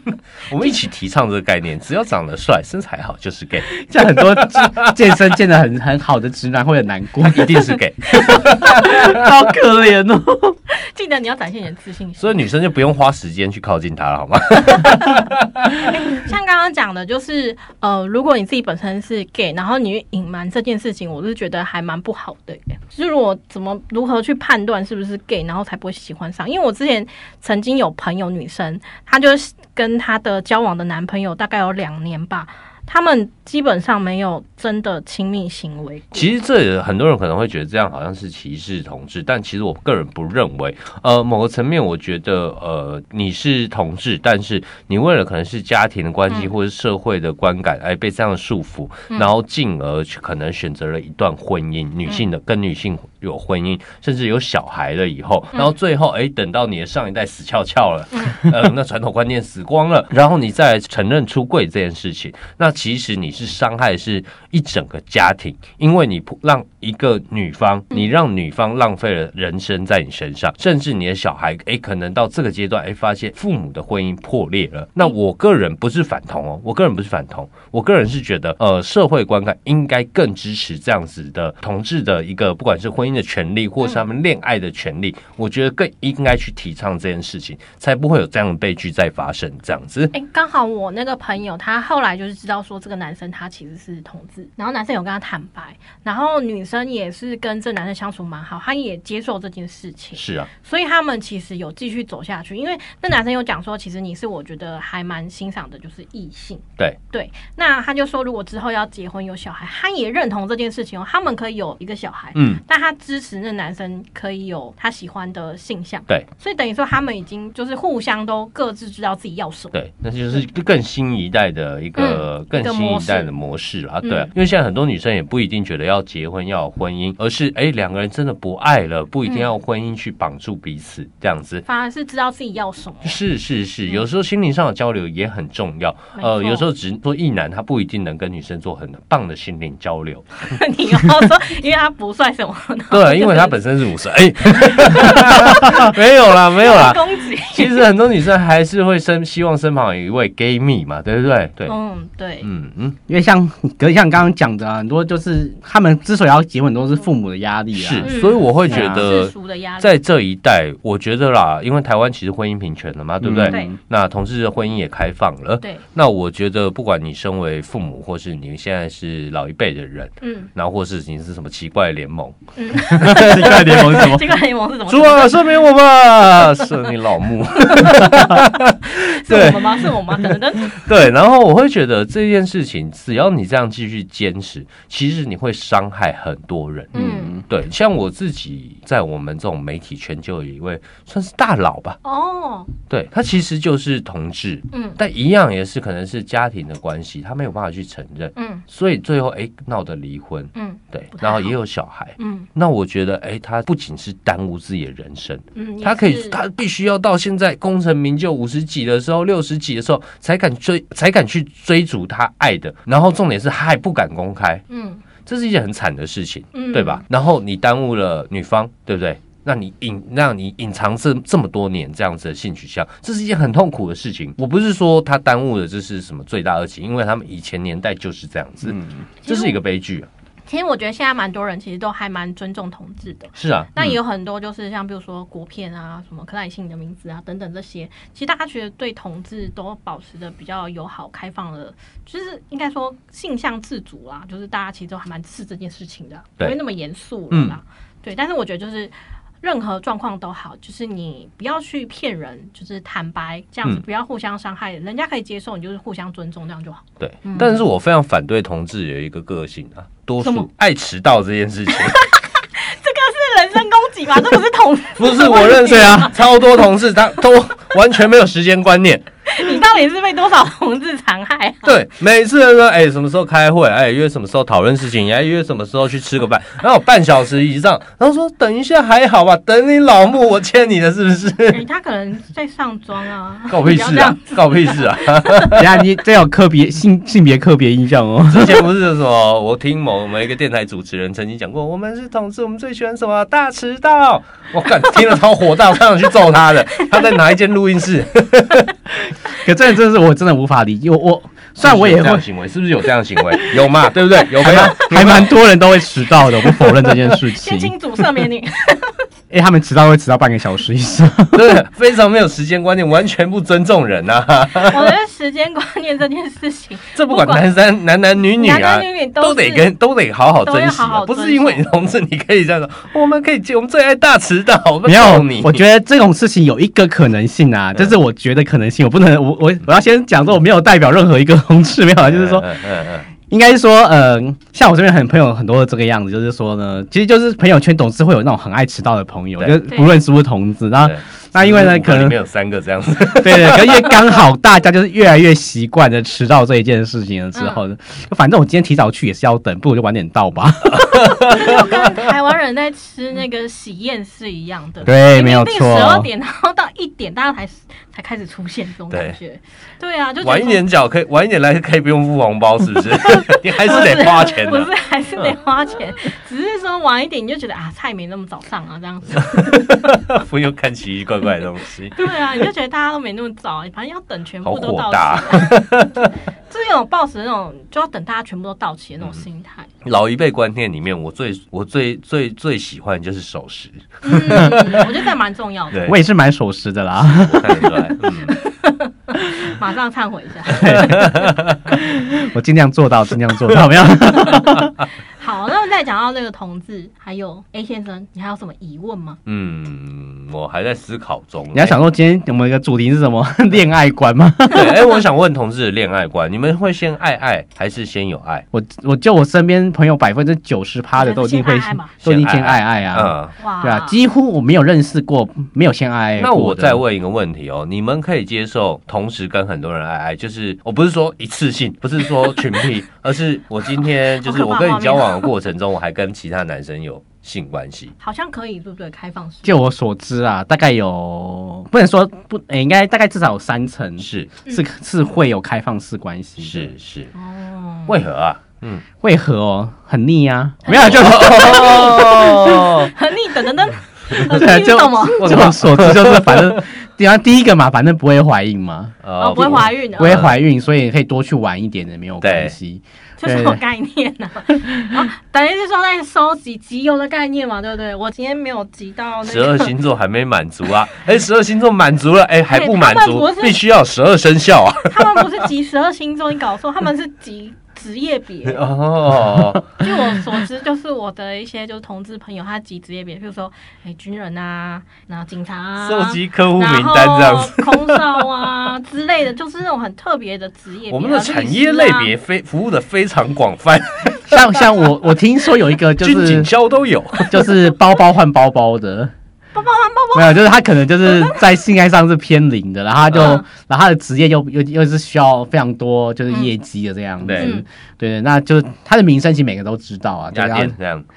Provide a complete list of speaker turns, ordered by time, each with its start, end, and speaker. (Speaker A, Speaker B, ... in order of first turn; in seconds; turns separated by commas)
Speaker A: 0.5-3.8, Speaker B: 3.8-10.6, Speaker A: 4.4-4.9, Speaker A: 7.3-9.2, Speaker C: 10.7-12.4, Speaker A: 12.2-15.8, Speaker C: 14.8-15.2, Speaker C: 15.8-36.3, Speaker A: 36.1-90.1, Speaker C: 58.1-58.4, Speaker C: 90.1-119.8, Speaker A: 100.2-100.5, Speaker A: 112.3-112.6, Speaker A: 119.7-131.7, Speaker C: 122.0-123.3, Speaker C: 124.0-124.3, Speaker C: 129.3-129.5, Speaker C: 131.7-133.2, Speaker A: 133.0-140.4, Speaker C: 136.2-136.7, Speaker C: 140.5-143.6, Speaker A: 142.9-151.8, Speaker C: 144.8-145.9, Speaker C: 146.6-147.9, Speaker C: 151.7-152.5, Speaker A: 152.4-153.0, Speaker B: 153.1-158.1, Speaker A: 157.8-174.1, Speaker C: 158.0-159.9, Speaker B: 158.7-159.0, Speaker B: 163.2-163.8, Speaker C: 163.5-163.8, Speaker C: 170.2-170.5, Speaker C: 172.6-175.4, Speaker B: 172.9-174.3, Speaker A: 174.9-180.0, Speaker C: 177.7-180.8, Speaker A: 180.7-192.0, Speaker C: 186.9-187.3, Speaker B: 186.9-187.4, Speaker C: 192.0-192.7, Speaker A: 192.9-214.6, Speaker C: 194.7-195.0, Speaker C: 198.4-198.6, Speaker C: 200.6-201.6, Speaker C: 202.2-202.5, Speaker C: 205.6-206.4, Speaker C: 214.7-215.0, Speaker A: 215.2-230.1, Speaker C: 216.5-217.0, Speaker B: 228.6-229.0, Speaker C: 229.2-229.6, Speaker C: 230.5-257.6, Speaker A: 233.4-234.0, Speaker A: 247.3-247.6, Speaker A: 257.0-262.0, Speaker C: 260.2-260.5, Speaker C: 261.8-266.2, Speaker A: 265.0-269.1, Speaker B: 265.6-266.1, Speaker C: 269.3-271.8, Speaker A: 271.6-281.6, Speaker C: 281.5-285.5, Speaker A: 283.5-285.7, Speaker B: 285.6-288.7, Speaker A: 288.3-298.7, Speaker B: 299.3-302.2, Speaker A: 301.6-305.4, Speaker B: 304.4-307.7, Speaker C: 307.2-309.0, Speaker B: 309.3-311.6, Speaker A: 311.3-314.9, Speaker C: 314.6-317.4, Speaker A: 316.9-325.6, Speaker C: 318.3-319.7, Speaker C: 320.4-321.7, Speaker B: 324.9-332.5, Speaker A: 332.0-333.1, Speaker B: 333.3-342.2, Speaker C: 339.7-339.9, Speaker A: 340.8-344.1, Speaker B: 343.1-351.1, Speaker C: 347.4-347.6, Speaker A: 350.9-351.4, Speaker C: 351.0-360.6, Speaker B: 354.8-356.1, Speaker A: 358.9-359.2, Speaker A: 360.2-364.7, Speaker C: 363.2-369.8, Speaker A: 369.3-372.1, Speaker C: 372.0-375.7, Speaker A: 374.4-376.1, Speaker C: 376.5-379.7, Speaker A: 379.8-384.9, Speaker C: 384.0-385.9, Speaker A: 385.7-386.0, Speaker B: 385.9-387.7, Speaker A: 387.0-388.3, Speaker C: 388.3-391.0, Speaker B: 390.5-394.7, Speaker A: 390.9-391.6, Speaker C: 395.2-399.2, Speaker A: 399.3-401.8, Speaker B: 401.5-404.8, Speaker A: 404.5-408.4, Speaker B: 408.5-416.8, Speaker C: 411.0-411.9, Speaker A: 412.0-413.3, Speaker C: 413.4-414.0, Speaker A: 416.2-427.9, Speaker C: 424.2-425.3, Speaker C: 428.0-429.6, Speaker B: 429.4-436.7, Speaker A: 434.0-434.3, Speaker A: 436.4-437.1, Speaker C: 437.1-438.0, Speaker A: 437.9-438.9, Speaker B: 439.0-442.8, Speaker C: 440.7-445.3, Speaker A: 440.7-442.9, Speaker B: 444.1-453.6, Speaker A: 445.2-446.6, Speaker A: 449.0-450.4, Speaker C: 449.2-450.2, Speaker A: 452.2-452.5, Speaker C: 453.2-459.7, Speaker A: 459.2-465.3, Speaker C: 462.5-463.6, Speaker C: 464.9-468.6, Speaker A: 468.5-469.7, Speaker C: 469.8-482.1, Speaker A: 475.8-478.2, Speaker A: 480.9-484.4, Speaker B: 484.3-486.5, Speaker A: 486.0-487.6, Speaker B: 487.2-489.1, Speaker C: 489.6-491.4, Speaker B: 490.1-500.8, Speaker A: 493.1-493.4, Speaker C: 493.2-493.4, Speaker A: 497.2-497.5, Speaker C: 497.4-497.6, Speaker A: 500.3-501.1